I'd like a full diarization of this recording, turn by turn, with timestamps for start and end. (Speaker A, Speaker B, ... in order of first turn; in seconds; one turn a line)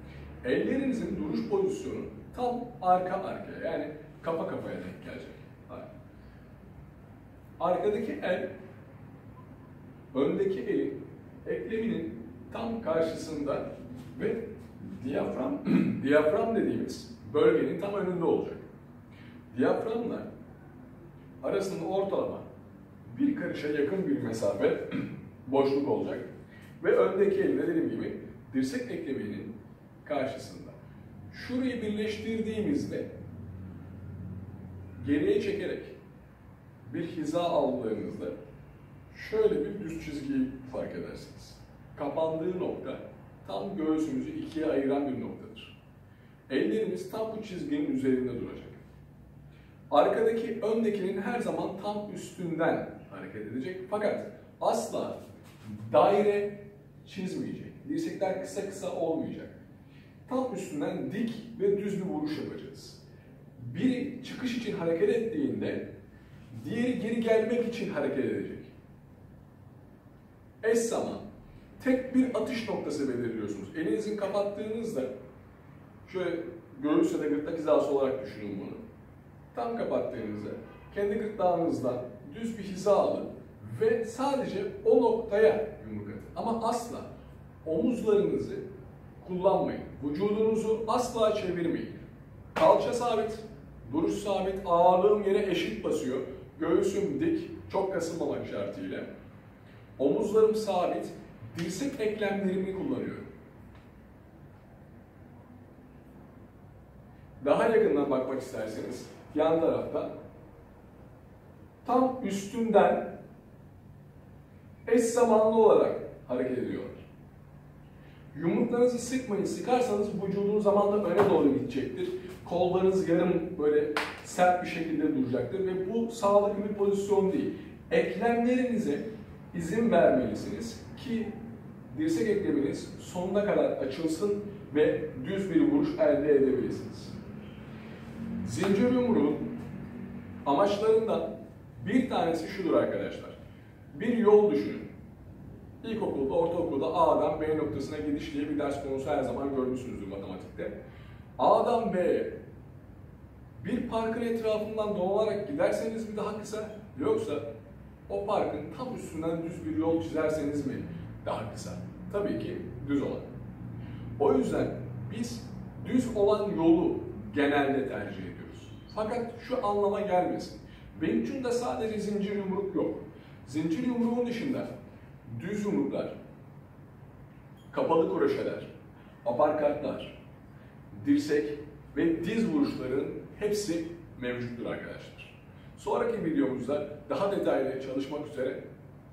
Speaker A: 0.4-5.9
Speaker A: 7.6-8.5
Speaker A: 10.1-18.6
Speaker A: 19.5-20.3
Speaker A: 21.4-22.5
Speaker A: 23.1-29.5
Speaker A: 30.0-30.8
Speaker A: 31.3-33.1
Speaker A: 35.0-36.0
Speaker A: 36.8-38.4
Speaker A: 39.1-45.8
Speaker A: 46.5-48.8
Speaker A: 49.9-59.6
Speaker A: 60.3-63.0
Speaker A: 63.6-65.8
Speaker A: 66.5-68.7
Speaker A: 70.6-71.2
Speaker A: 71.8-75.1
Speaker A: 76.0-78.8
Speaker A: 79.5-87.1
Speaker A: 87.6-88.6
Speaker A: 89.2-92.0
Speaker A: 92.5-99.1
Speaker A: 100.0-103.3
Speaker A: 107.4-110.1
Speaker A: 111.8-113.2
Speaker A: 114.9-117.0
Speaker A: 118.3-131.3
Speaker A: 131.9-137.2
Speaker A: 138.4-139.5
Speaker A: 140.4-143.4
Speaker A: 143.9-144.9
Speaker A: 145.8-150.8
Speaker A: 151.4-152.3
Speaker A: 153.6-157.4
Speaker A: 158.1-163.3
Speaker A: 164.2-174.7
Speaker A: 175.3-176.2
Speaker A: 177.7-178.7
Speaker A: 179.2-180.2
Speaker A: 180.9-188.7